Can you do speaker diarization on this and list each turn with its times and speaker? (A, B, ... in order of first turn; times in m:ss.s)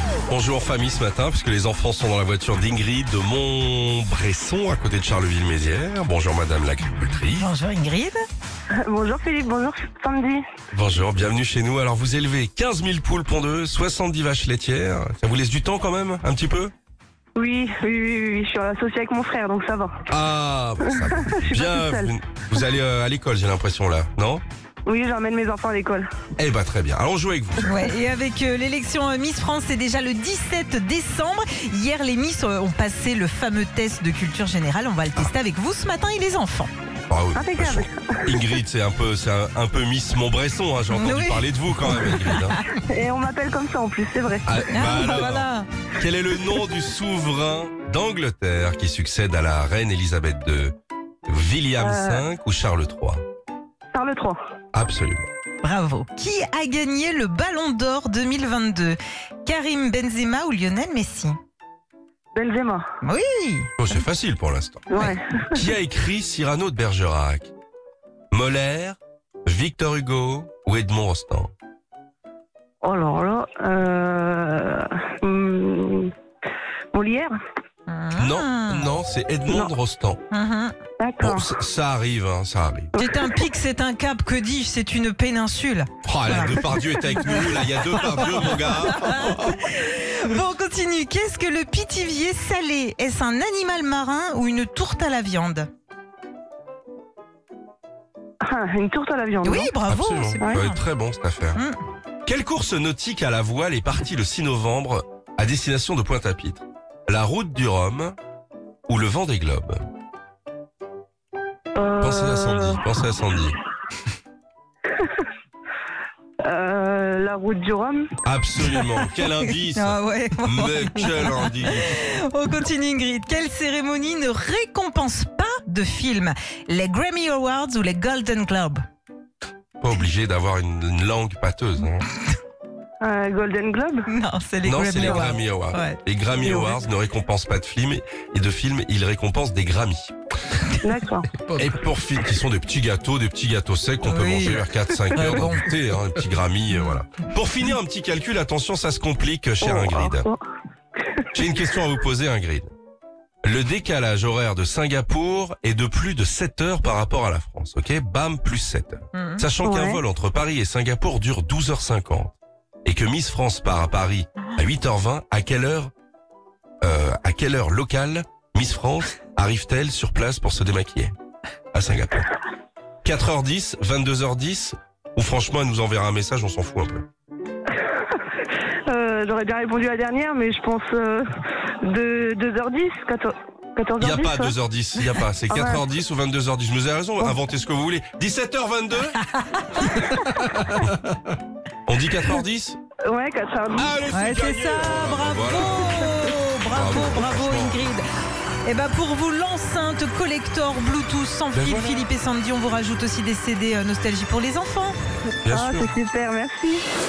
0:00.3-0:07.5 A
0:07.4-0:08.2 B
0:08.8-0:10.4 C
0:10.7-0:16.7 A
0:17.3-0:20.0 C
0:20.1-0:24.4 A
0:21.4-0:22.1 C
0:24.8-0:26.1 C
0:26.4-0:27.9 A
0:27.6-0:36.7 B
0:37.1-0:42.6 A
0:37.3-0:38.4 C
0:40.9-0:42.6 B
0:42.9-0:44.5 C
0:44.4-0:53.2 A
0:44.7-0:45.7 B
0:51.8-0:52.2 C
0:53.9-0:54.4 C
0:54.7-0:55.3 A
0:55.6-1:01.4 B
1:02.3-1:02.8 C
1:03.0-1:03.7 B
1:03.8-1:05.0 A
1:04.9-1:05.5 C
1:05.5-1:07.5 A
1:08.3-1:11.5 A
1:12.8-1:16.1 C
1:16.9-1:17.3 C
1:17.9-1:18.9 B
1:18.2-1:20.2 A
1:19.5-1:19.7 C
1:20.3-1:20.7 B
1:21.0-1:21.5 C
1:21.2-1:22.9 A
1:22.9-1:23.2 C
1:23.0-1:35.7 B
1:26.0-1:29.5 A
1:38.4-1:39.7 C
1:39.4-1:40.8 B
1:39.9-1:41.6 A
1:42.2-1:48.2 A
1:48.9-1:49.8 A
1:51.7-1:52.8 C
1:52.0-1:53.6 A
1:56.4-1:58.1 C
1:58.2-2:02.0 A
1:59.4-2:08.8 B
2:09.8-2:12.0 A
2:13.0-2:14.1 C
2:14.1-2:16.0 B
2:14.6-2:20.1 A
2:15.0-2:15.3 C
2:16.4-2:16.8 C
2:20.8-2:21.3 C
2:21.6-2:30.3 A
2:24.0-2:25.7 B
2:26.7-2:27.0 B
2:29.6-2:30.4 C
2:31.3-2:32.7 A
2:33.4-2:45.9 A
2:39.1-2:39.4 B
2:39.6-2:40.0 C
2:46.8-2:51.1 A
2:51.7-2:52.3 A
2:53.0-2:57.1 A
2:58.9-3:01.2 C
3:01.8-3:04.5 C
3:04.0-3:09.2 A
3:05.5-3:05.8 C
3:09.3-3:10.3 B
3:11.8-3:12.8 A
3:13.0-3:14.0 C
3:13.8-3:16.0 A
3:14.1-3:18.0 B
3:16.7-3:17.8 A
3:18.6-3:24.9 B
3:21.6-3:22.0 A
3:25.4-3:25.9 A
3:25.5-3:26.8 C